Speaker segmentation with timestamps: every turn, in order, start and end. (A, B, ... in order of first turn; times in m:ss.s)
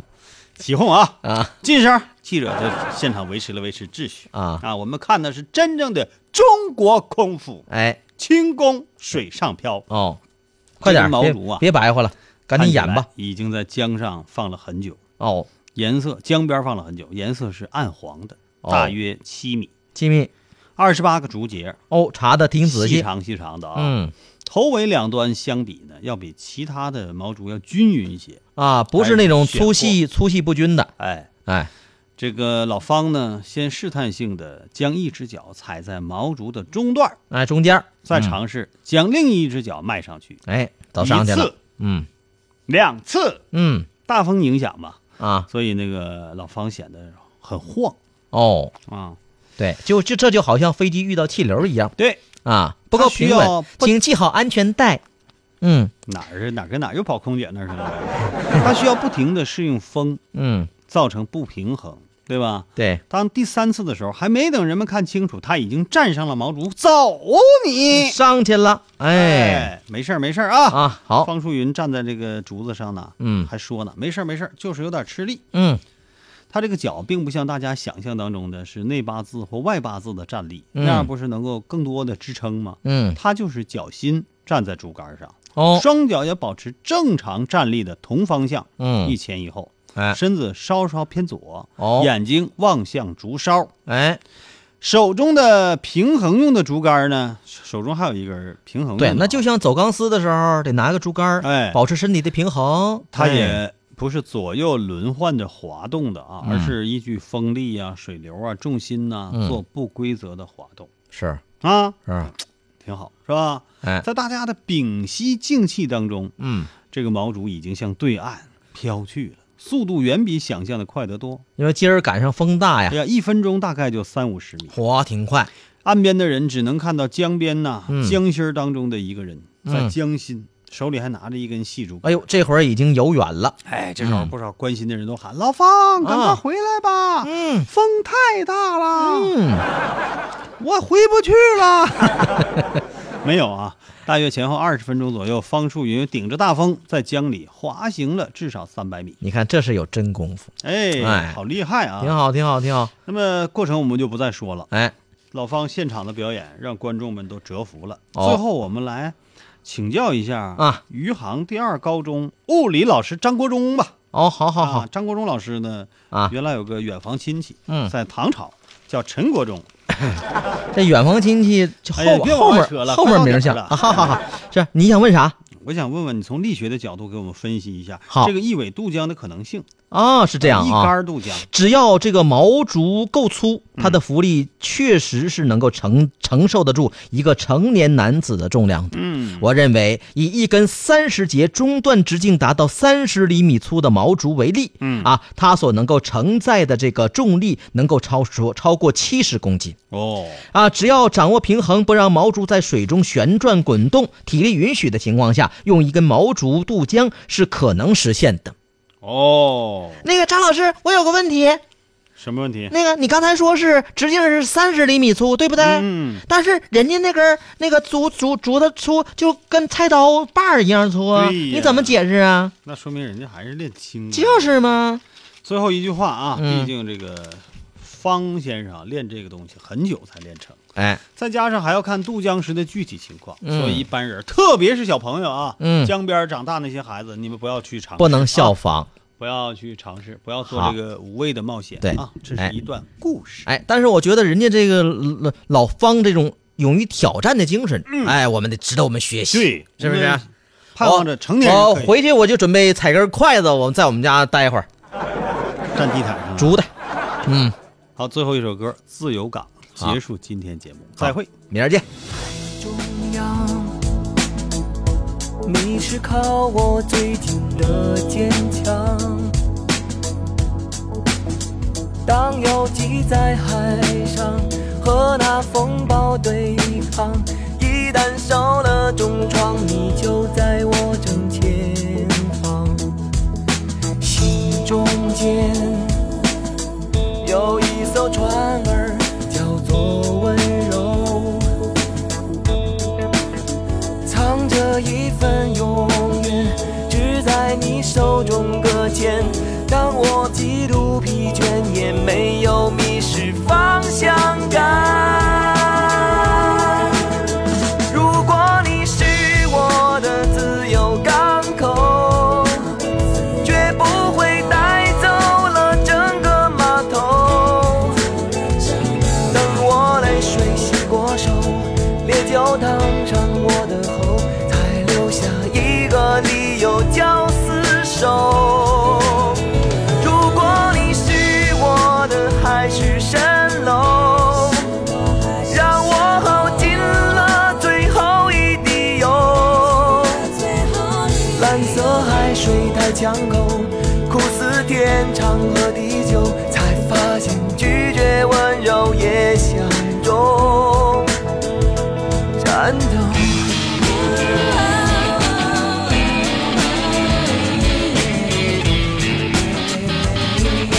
0:00.6-0:07.6 A
0:01.2-0:01.5 B
0:04.3-0:04.6 B
0:07.7-0:08.0 B
0:08.2-0:09.8 A
0:09.9-0:10.2 B
0:10.8-0:11.6 A
0:10.8-0:13.1 B
0:12.5-0:15.0 A
0:15.2-0:15.5 B
0:15.7-0:19.7 A
0:18.6-0:18.9 B
0:19.9-0:20.3 B
0:20.8-0:21.8 A
0:21.9-0:23.1 B
0:22.6-0:23.9 A
0:23.7-0:24.1 B
0:24.4-0:28.4 A
0:28.6-0:30.9 B
0:29.0-0:30.0 A
0:31.0-0:31.3 A
0:32.2-0:37.2 A
0:37.3-0:38.4 B
0:38.0-0:40.4 A
0:40.5-0:42.1 B
0:41.0-0:41.5 A
0:42.7-0:43.4 A
0:43.5-0:43.9 B
0:44.0-0:48.0 A
0:45.2-0:45.5 B
0:48.3-0:48.7 B
0:48.9-0:49.2 A
0:49.6-0:51.9 B
0:52.0-0:52.2 A
0:52.4-0:55.0 B
0:52.9-0:53.9 A
0:55.6-0:55.9 B
0:56.1-1:00.2 A
1:00.3-1:00.7 B
1:00.9-1:08.2 A
1:02.8-1:03.0 B
1:07.9-1:09.7 B
1:09.1-1:15.4 A
1:10.7-1:11.3 B
1:13.2-1:13.5 B
1:15.5-1:15.8 B
1:16.5-1:33.7 A
1:20.7-1:21.1 B
1:22.8-1:23.2 B
1:25.6-1:25.8 B
1:28.8-1:29.1 B
1:31.8-1:32.1 B
1:33.9-1:34.2 B
1:34.8-1:39.4 A
1:39.0-1:43.6 B
1:41.4-1:41.8 A
1:43.1-1:50.9 A
1:46.4-1:46.7 B
1:49.3-1:49.6 B
1:51.1-1:51.4 B
1:51.6-1:56.3 A
1:56.4-1:56.7 B
1:56.9-2:01.4 A
2:01.6-2:03.0 B
2:02.9-2:04.8 A
2:04.7-2:05.5 B
2:05.8-2:12.1 A
2:07.9-2:08.2 B
2:09.6-2:09.9 B
2:12.0-2:14.3 B
2:13.7-2:19.3 A
2:16.0-2:16.4 B
2:17.2-2:17.7 B
2:19.0-2:19.6 B
2:20.6-2:22.4 A
2:23.2-2:29.2 A
2:29.2-2:31.4 B
2:30.6-2:32.2 A
2:32.0-2:32.9 B
2:33.0-2:34.7 A
2:35.3-2:43.9 A
2:38.1-2:38.4 B
2:44.1-2:44.9 B
2:44.6-2:49.7 A
2:50.7-2:55.4 B
2:52.0-2:54.2 A
2:55.6-2:59.7 A
2:59.9-3:19.8 B
3:00.4-3:01.4 A
3:08.9-3:09.5 A
3:14.8-3:15.1 A
3:19.9-3:20.4 A
3:20.5-3:28.5 B
3:29.0-3:30.0 A
3:30.0-3:31.6 B
3:32.2-3:32.7 A
3:32.7-3:42.5 B
3:35.6-3:36.2 A
3:41.1-3:42.0 A
3:42.6-3:44.6 A
3:44.1-3:45.0 B
3:45.4-3:50.6 A
3:46.4-3:46.7 B
3:50.8-3:51.0 B
3:51.2-3:58.6 A
3:53.4-3:53.8 B
3:55.6-3:55.9 B
3:58.0-3:58.9 B
3:59.2-4:03.5 A
4:00.5-4:00.7 B
4:01.8-4:02.5 B
4:03.4-4:10.2 B
4:07.8-4:08.2 A
4:09.3-4:11.9 A
4:10.8-4:14.7 B
4:15.7-4:16.6 A
4:16.4-4:16.7 B
4:17.2-4:17.6 B
4:18.0-4:21.3 A
4:21.0-4:21.8 B
4:22.4-4:23.8 C
4:25.4-4:29.3 C
4:32.0-4:43.0 C
4:44.0-4:46.0 C
4:47.2-4:51.5 C
4:54.0-5:07.0 C
5:07.9-5:12.7 C
5:13.4-5:18.0 C
5:19.2-5:29.4 C
5:30.0-5:34.8 C
5:35.4-5:40.3 C
5:41.2-5:51.1 C
5:52.4-5:53.5 C